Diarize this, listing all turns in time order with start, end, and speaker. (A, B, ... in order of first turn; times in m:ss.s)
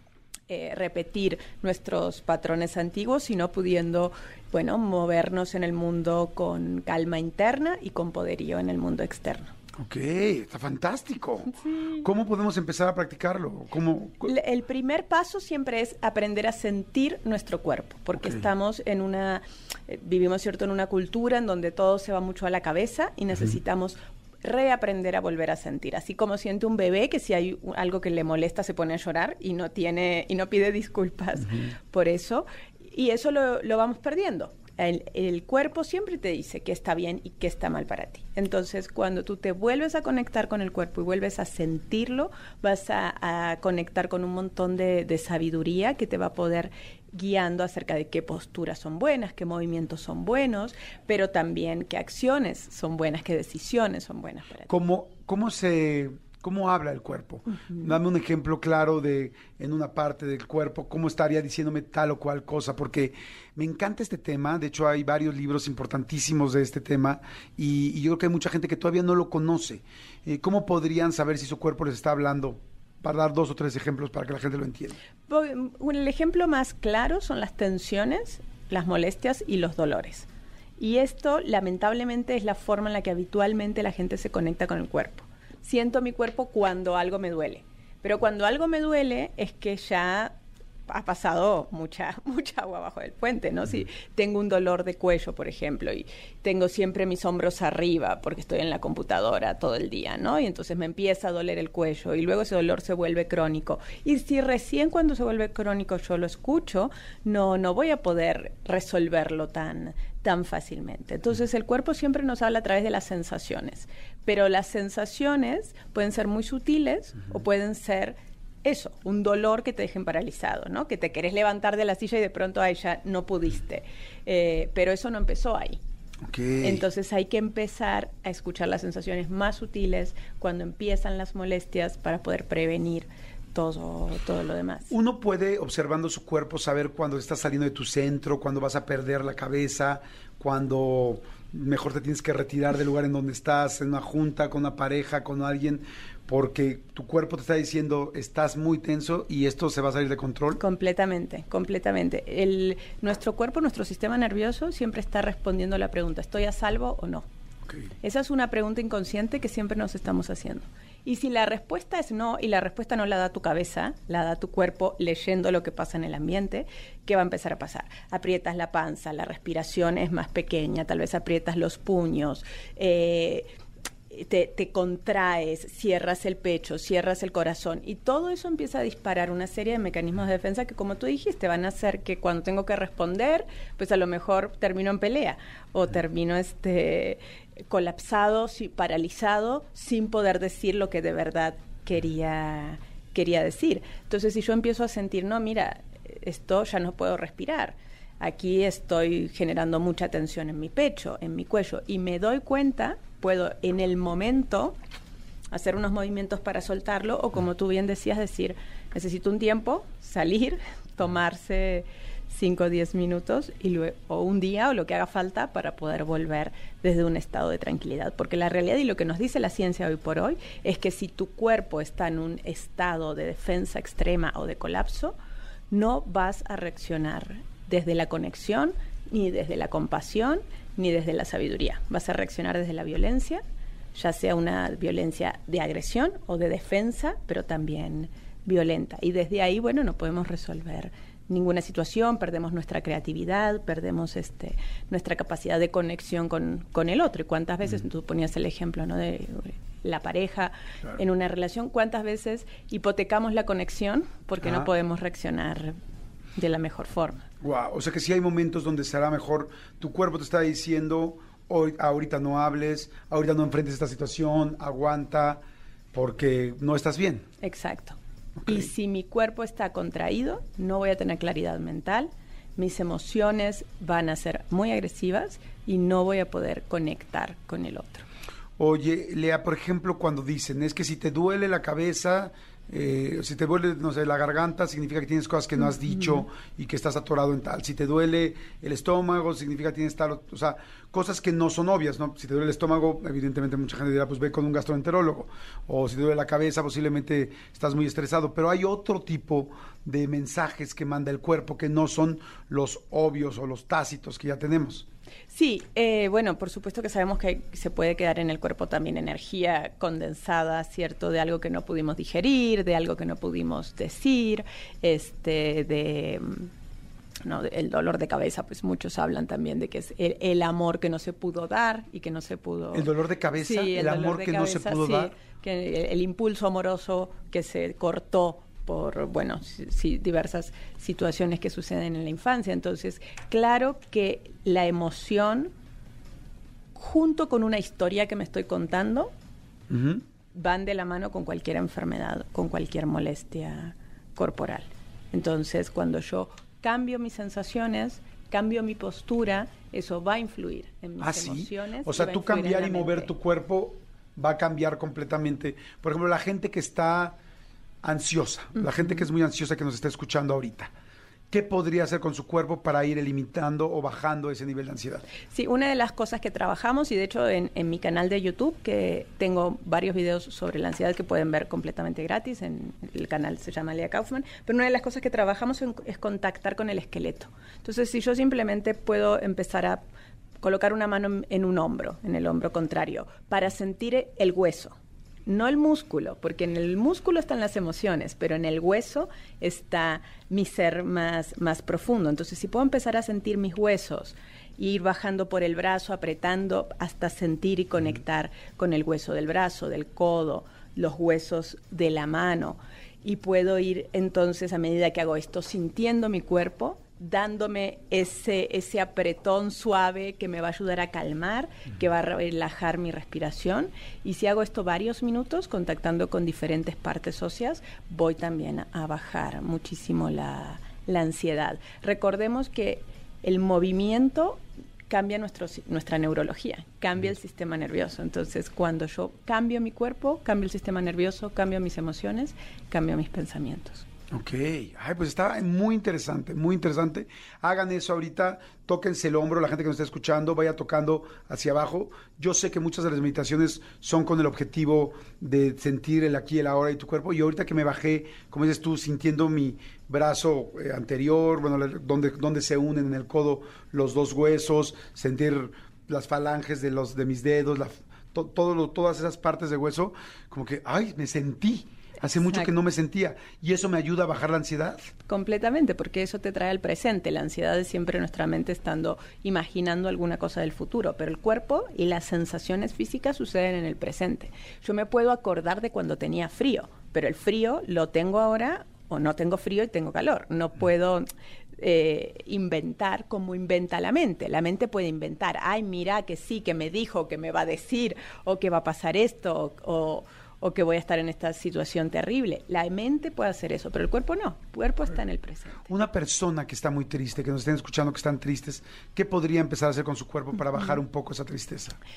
0:00.5-0:09.5 A
0:09.8-0:14.3 B
0:14.2-0:54.7 A
0:54.7-1:15.0 B
1:15.3-1:30.4 A
1:30.9-2:05.8 A
2:06.3-2:06.8 B
2:06.6-2:14.9 A
2:14.9-2:30.6 B
2:30.6-2:37.3 A
2:38.0-2:53.5 A
2:54.1-3:24.8 A
3:25.5-3:45.2 A
3:45.7-3:53.4 A
3:54.0-4:15.8 A
4:14.4-4:14.7 B
4:16.4-4:17.3 A
4:17.4-4:25.4 B
4:25.9-4:27.2 B
4:27.4-4:38.1 A
4:28.4-4:28.7 B
4:38.6-5:04.9 B
4:45.9-4:46.2 A
5:05.3-5:16.5 A
5:17.2-5:35.5 A
5:22.7-5:25.1 B
5:36.8-5:39.1 A
5:39.7-5:40.0 B
5:40.3-5:53.1 A
5:51.0-5:57.2 B
5:57.8-6:00.7 B
5:58.6-5:59.1 A
6:01.3-6:05.0 B
6:05.3-6:19.8 A
6:20.4-7:13.9 A
7:14.1-7:44.9 B
7:42.1-7:42.5 A
7:45.1-8:01.1 A
8:01.6-8:15.7 A
8:15.7-8:21.8 B